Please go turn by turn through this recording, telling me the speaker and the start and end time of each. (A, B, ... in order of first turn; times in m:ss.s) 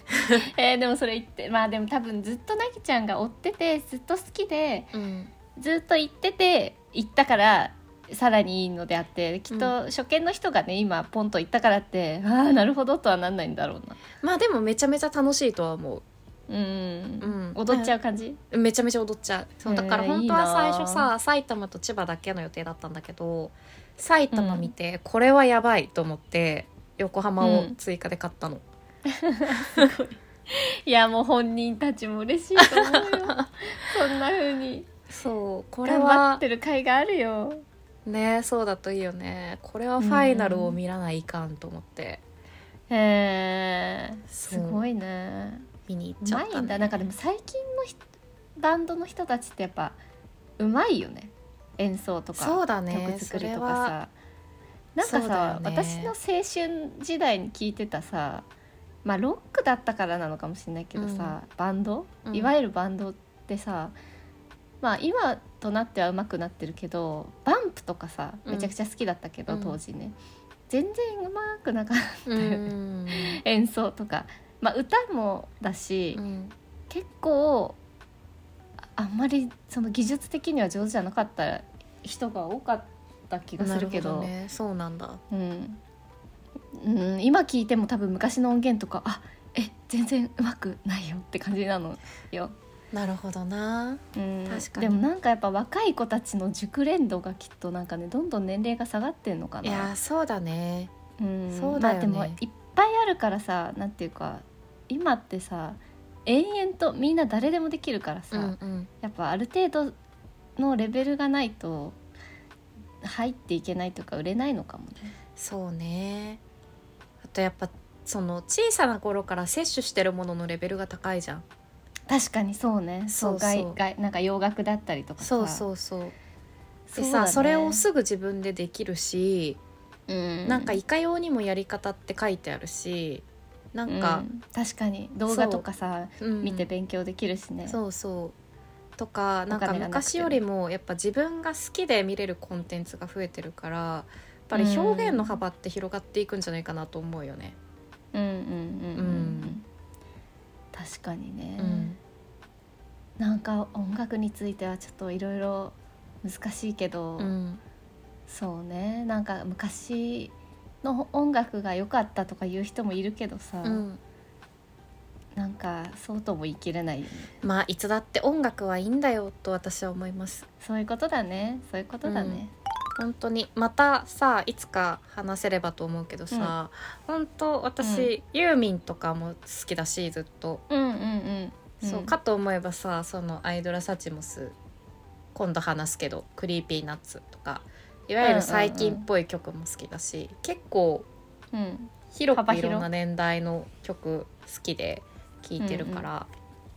0:00.4-0:04.9 A
0:04.9-0:05.3 B
0:05.6-0:14.0 A
0:14.2-0:16.0 B
0:16.5-0:18.4 A
0:17.2-0:17.9 B
0:18.5-0:28.6 B
0:19.6-0:21.1 A
0:24.3-0:24.7 A
0:27.4-0:27.8 A
0:29.1-0:34.9 A
0:32.6-0:33.4 B
0:35.1-0:36.4 B
0:35.9-0:37.6 A
0:38.1-0:42.2 B
0:40.0-0:40.8 A
0:42.9-0:45.7 A
0:44.3-0:44.8 B
0:45.9-0:46.9 B
0:46.2-0:48.0 A
0:48.6-0:50.0 A
0:50.6-0:54.1 A
0:52.4-0:54.0 B
0:55.0-0:58.5 A
0:55.0-0:56.1 B
0:59.0-1:04.0 A
1:01.0-1:01.4 B
1:02.3-1:02.5 B
1:04.8-1:10.2 A
1:08.5-1:08.7 B
1:09.5-1:09.8 B
1:10.7-1:16.2 A
1:12.3-1:13.4 B
1:16.2-1:16.5 B
1:16.9-1:17.8 A
1:19.0-1:24.3 A
1:23.6-1:25.2 B
1:25.3-1:25.8 A
1:26.8-1:32.5 A
1:32.9-1:35.0 B
1:34.2-1:39.9 A
1:39.6-1:40.9 B
1:41.2-1:49.9 A
1:41.5-1:42.4 B
1:48.3-1:48.9 B
1:50.6-1:52.0 A
1:53.0-1:55.2 A
1:55.4-1:56.4 B
1:57.2-2:01.4 B
2:02.1-2:05.7 A
2:03.1-2:03.8 B
2:05.2-2:06.2 B
2:06.9-2:07.8 A
2:07.0-2:09.6 B
2:10.1-2:10.8 A
2:10.5-2:14.3 B
2:13.9-2:17.8 A
2:15.3-2:15.6 B
2:16.2-2:16.7 B
2:17.7-2:18.3 B
2:19.0-2:27.6 B
2:19.5-2:20.4 A
2:24.5-2:25.4 A
2:28.1-2:29.6 A
2:29.0-2:29.6 B
2:30.7-2:31.9 A
2:31.6-2:32.0 B
2:33.2-2:37.3 A
2:37.2-2:37.6 B
2:38.3-2:43.8 A
2:43.6-2:44.0 B
2:45.4-2:47.3 A
2:47.4-2:50.5 B
2:50.6-2:52.5 A
2:52.0-2:52.4 B
2:53.0-3:00.6 B
2:57.8-2:58.1 A
3:00.7-3:02.1 A
3:01.8-3:04.6 B
3:05.3-3:11.1 B
3:08.2-3:09.0 A
3:11.5-3:12.9 A
3:12.1-3:16.3 B
3:15.6-3:16.1 A